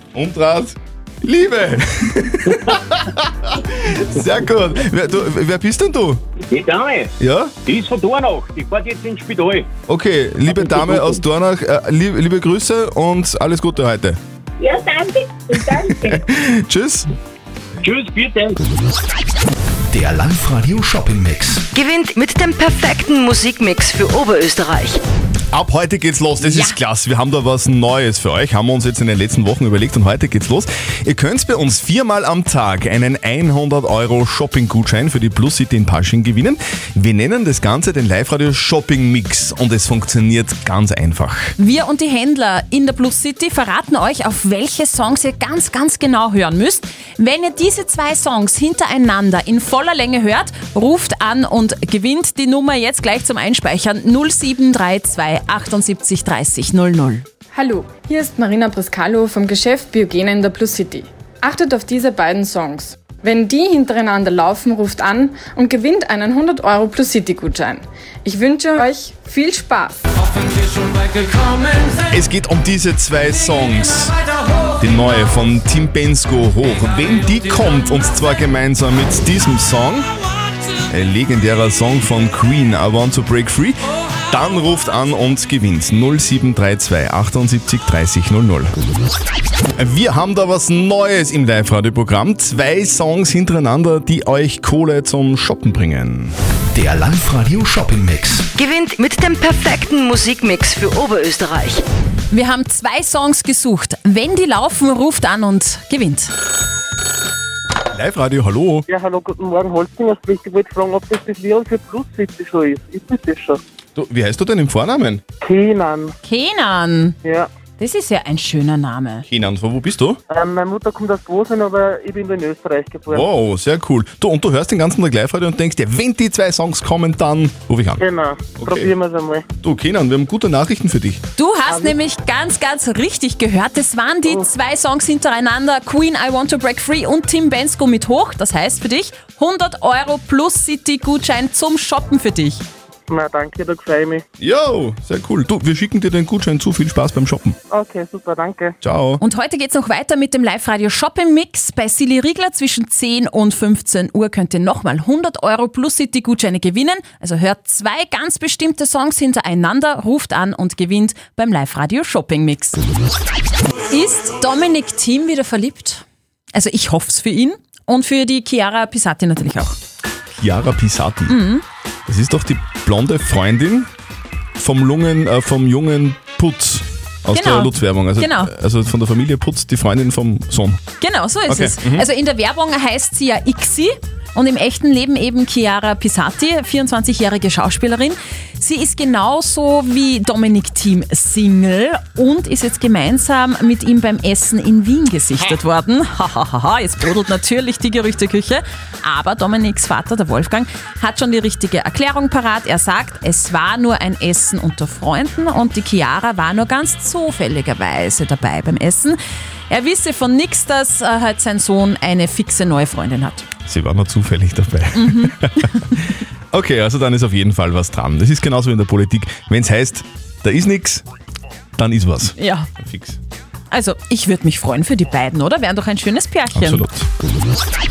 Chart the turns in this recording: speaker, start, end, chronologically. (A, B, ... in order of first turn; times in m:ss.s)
0:00.1-0:06.2 A
0:06.5-0:07.1 B
0:07.2-0:07.5 A
0:07.6-0:09.7 B
0:09.9-0:14.2 A
0:10.5-0:11.1 B
0:14.6-0:15.7 C
0:16.1-0:17.1 A
0:17.8-0:18.6 B
0:19.9-0:21.6 D
0:21.7-0:25.0 E
0:25.5-0:41.6 A
0:26.4-0:26.8 F
0:41.6-0:57.2 F
0:57.6-1:01.0 G
1:01.6-1:07.6 G
1:08.2-1:09.8 G
1:12.1-1:14.1 A
1:14.8-1:20.1 A
1:20.9-1:23.8 A
1:24.3-1:28.7 A
1:29.8-1:36.3 A
1:36.7-1:38.5 D
1:38.6-1:41.8 E
1:42.3-1:46.3 F
1:47.9-1:48.8 A
1:48.9-1:53.6 C
1:54.0-1:55.2 A
1:55.4-1:56.1 C
1:56.2-1:57.2 F
1:57.8-1:59.2 F
1:59.3-2:00.2 A
2:00.3-2:03.2 C
2:03.1-2:08.0 A
2:08.0-2:09.4 C
2:08.6-2:08.9 A
2:09.6-2:11.2 A
2:11.4-2:22.6 F
2:23.1-2:24.2 C
2:24.4-2:27.6 A
2:27.7-2:28.7 C
2:28.8-2:29.2 A
2:29.2-2:42.8 F
2:43.9-2:46.0 F
2:46.5-2:49.8 F
2:50.4-2:51.4 A
2:51.3-2:51.6 F
2:52.1-2:53.9 A
2:54.6-3:00.8 A
2:57.3-2:58.5 F
3:01.0-3:29.2 F
3:01.5-3:02.1 A
3:29.7-3:33.5 F
3:33.6-3:41.0 A
3:34.9-3:35.4 F
3:41.8-3:43.2 A
3:42.3-3:42.7 F
3:43.7-3:46.8 F
3:46.5-3:47.1 A